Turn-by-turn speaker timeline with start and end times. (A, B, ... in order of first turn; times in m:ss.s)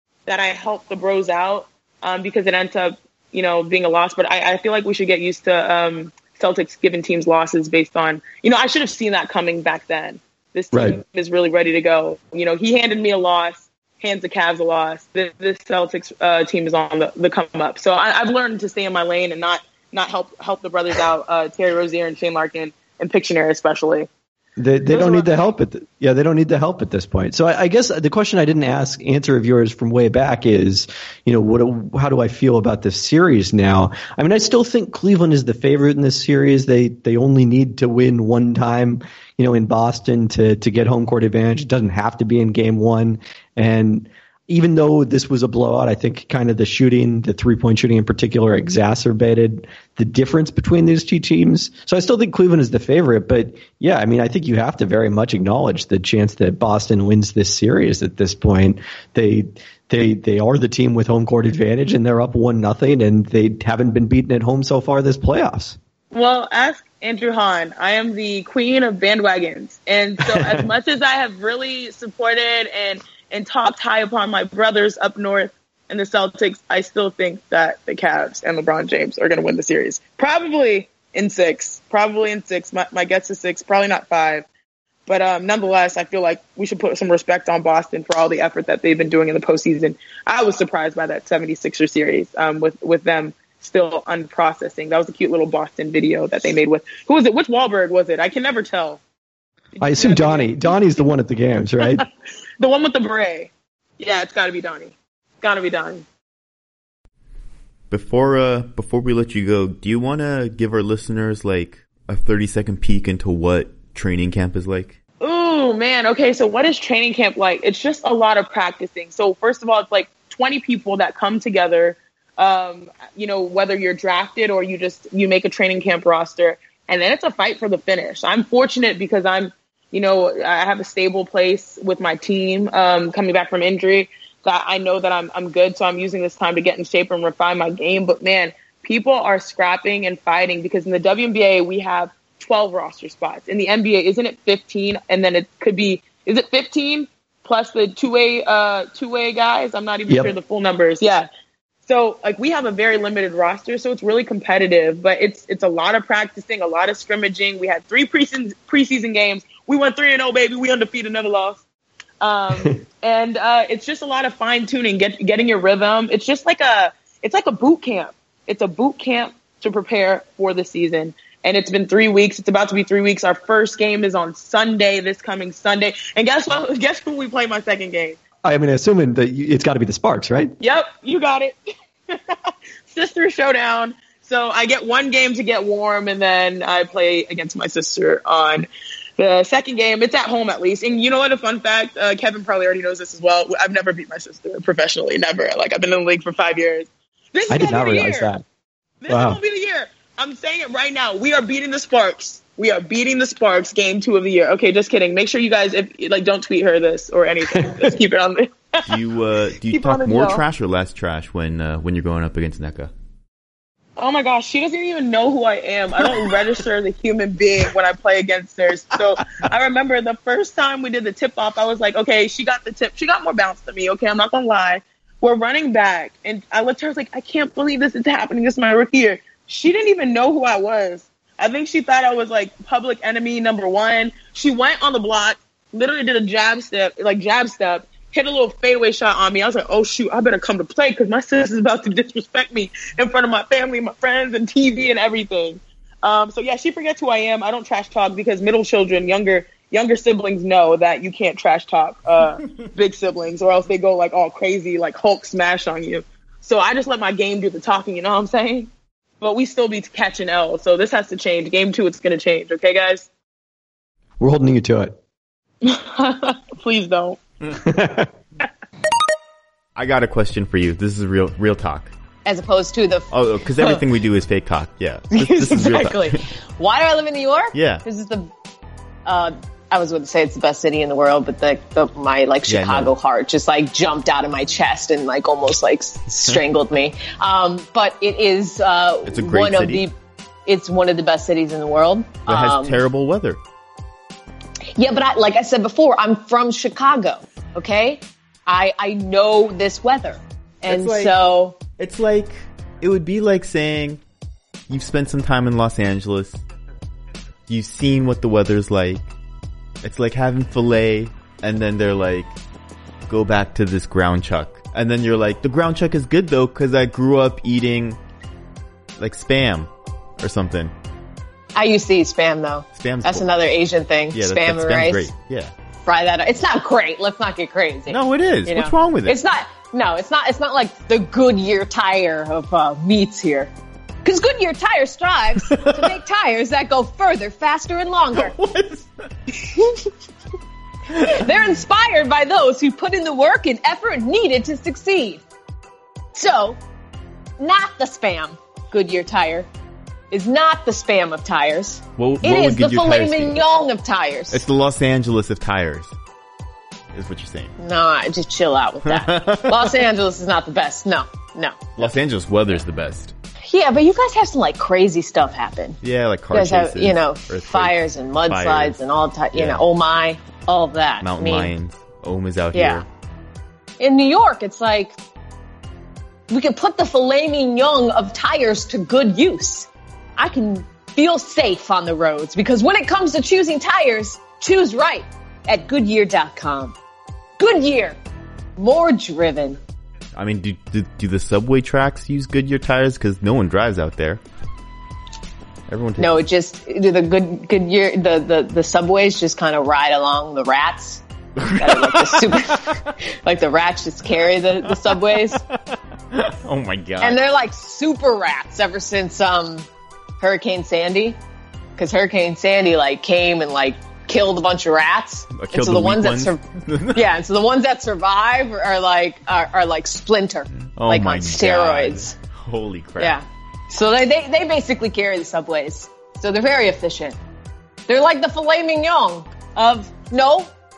0:00.3-0:24.1 A
0:10.7-0:11.0 B
0:24.6-1:05.8 B
0:24.9-0:25.3 A
1:06.1-1:24.4 A
1:10.3-1:10.6 B
1:25.1-1:39.0 A
1:39.8-1:40.7 A
1:39.8-1:42.0 B
1:42.6-1:46.0 A
1:47.9-1:55.0 C
1:55.2-2:31.3 A
2:30.1-2:30.3 B
2:31.8-2:41.6 A
2:42.2-2:58.2 A
2:58.4-3:00.5 B
3:00.6-3:01.6 A
3:02.1-3:02.4 A
3:02.9-3:08.7 A
3:09.2-3:18.3 A
3:17.5-3:18.4 B
3:19.0-3:28.8 A
3:19.1-3:19.4 B
3:27.5-3:27.9 B
3:28.8-3:32.9 C
3:29.7-3:30.4 A
3:34.0-4:18.7 A
4:19.2-4:23.1 A
4:24.2-4:25.0 B
4:25.6-4:27.2 A
4:27.6-4:28.1 B
4:29.8-4:31.9 C
4:32.2-4:33.9 D
4:33.1-4:36.2 C
4:35.1-4:38.3 D
4:37.5-4:37.8 C
4:39.0-4:49.9 D
4:42.5-4:42.9 C
4:49.0-4:49.8 C
4:50.4-4:52.8 D
4:52.2-4:53.4 C
4:54.8-5:01.6 D
5:00.7-5:01.2 C
5:01.8-5:04.0 C
5:04.7-5:06.4 C
5:07.5-5:09.0 C
5:09.8-5:12.3 C
5:13.1-5:18.0 C
5:19.0-5:20.7 C
5:21.5-5:25.1 D
5:22.7-5:23.3 C
5:24.1-5:25.5 C
5:25.8-5:33.5 D
5:27.9-5:29.2 C
5:34.0-5:38.3 D
5:35.5-5:36.0 C
5:38.1-5:38.9 C
5:41.0-5:45.2 D
5:46.1-5:46.6 D
5:47.4-5:49.5 D
5:50.1-5:54.4 D
5:52.0-5:53.4 C
5:54.3-5:55.9 C
5:56.9-5:57.5 C
5:57.6-6:01.9 D
5:58.8-5:59.8 C
6:01.8-6:03.1 C
6:03.4-6:05.8 D
6:05.8-6:08.8 C
6:06.3-6:11.5 D
6:09.3-6:09.6 C
6:11.0-6:12.8 C
6:12.5-6:12.8 D
6:13.8-6:15.0 D
6:16.3-6:26.8 D
6:27.4-6:28.0 D
6:28.6-6:29.6 D
6:30.2-6:34.2 C
6:35.7-6:36.2 C
6:36.0-6:41.0 D
6:41.6-6:45.4 D
6:41.6-6:42.4 C
6:46.1-6:47.2 C
6:47.0-6:49.7 D
6:50.2-6:51.2 D
6:51.8-6:56.4 D
6:55.3-6:57.0 C
6:56.9-7:02.1 D
7:00.6-7:03.2 C
7:03.0-7:07.2 D
7:07.9-7:10.5 D